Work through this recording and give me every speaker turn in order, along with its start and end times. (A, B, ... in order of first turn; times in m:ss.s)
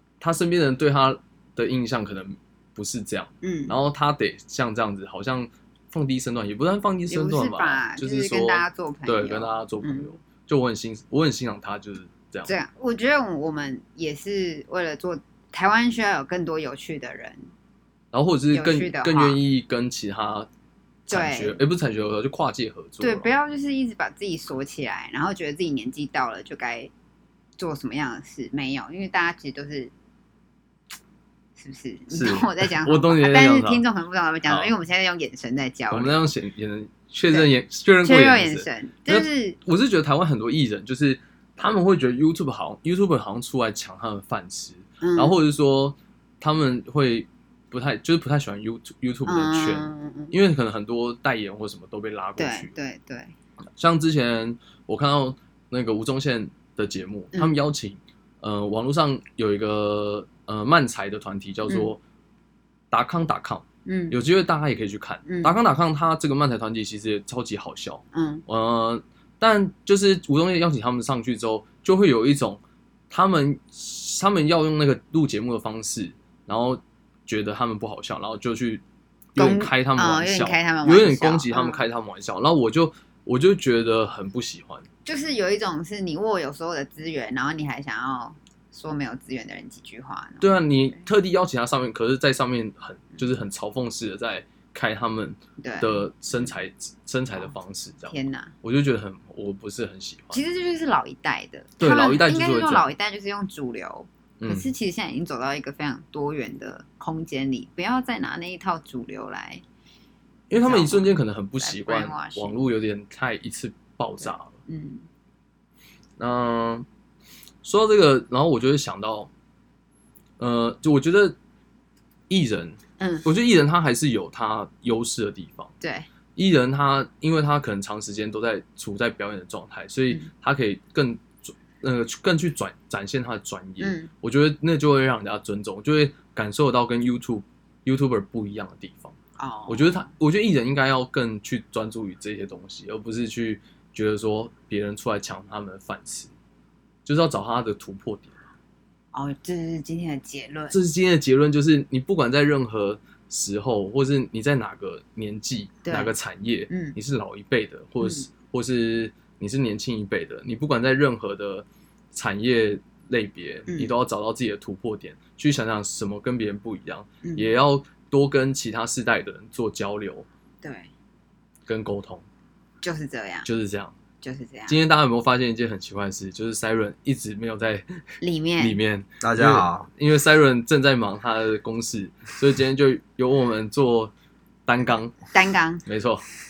0:00.2-0:12.5 A
0:03.4-0:03.8 B
0:07.1-0:10.2 B
0:12.4-0:17.5 B
0:18.1-0:20.5 A
0:18.5-0:19.4 B
0:21.1-0:21.6 B
0:21.1-0:23.3 A
0:23.0-0:26.9 B
0:27.6-0:29.9 B
0:31.6-0:36.2 B
0:32.1-0:33.8 A
0:34.4-0:34.7 A
0:35.9-0:52.7 A
0:38.0-0:39.6 B
0:45.0-0:45.4 B
0:49.2-0:50.3 B
0:52.4-0:53.3 B
0:53.7-1:02.0 A
0:57.3-0:57.6 B
1:01.6-1:01.9 B
1:02.9-1:18.8 A
1:03.8-1:04.2 B
1:05.2-1:05.5 B
1:08.1-1:08.4 B
1:19.3-1:24.9 A
1:19.4-1:21.8 B
1:25.0-1:31.0 B
1:30.4-1:40.4 A
1:35.6-1:36.5 B
1:38.1-1:38.5 B
1:40.3-1:49.6 B
1:41.8-1:42.9 A
1:44.4-1:44.7 A
1:50.5-1:54.5 A
1:50.5-1:52.6 B
1:54.2-1:55.1 B
1:56.2-1:56.8 A
1:57.6-1:59.3 A
2:00.4-2:01.4 A
2:02.3-2:05.7 A
2:03.0-2:03.2 B
2:05.8-2:06.1 B
2:06.4-2:26.3 A
2:13.8-2:14.1 B
2:19.4-2:20.1 B
2:27.0-2:28.5 A
2:29.1-2:30.8 B
2:30.7-2:50.2 A
2:35.8-2:36.1 B
2:36.7-2:37.0 B
2:38.0-2:38.3 B
2:43.7-2:43.9 B
2:47.2-2:47.5 B
2:50.6-2:50.9 B
2:51.7-2:52.2 A
2:52.8-2:53.5 B
2:53.4-2:53.9 A
2:54.2-2:54.8 B
2:54.7-2:58.0 A
2:58.2-2:58.8 B
2:58.6-3:04.1 A
3:04.7-3:05.2 A
3:05.3-3:05.8 B
3:05.8-3:06.2 A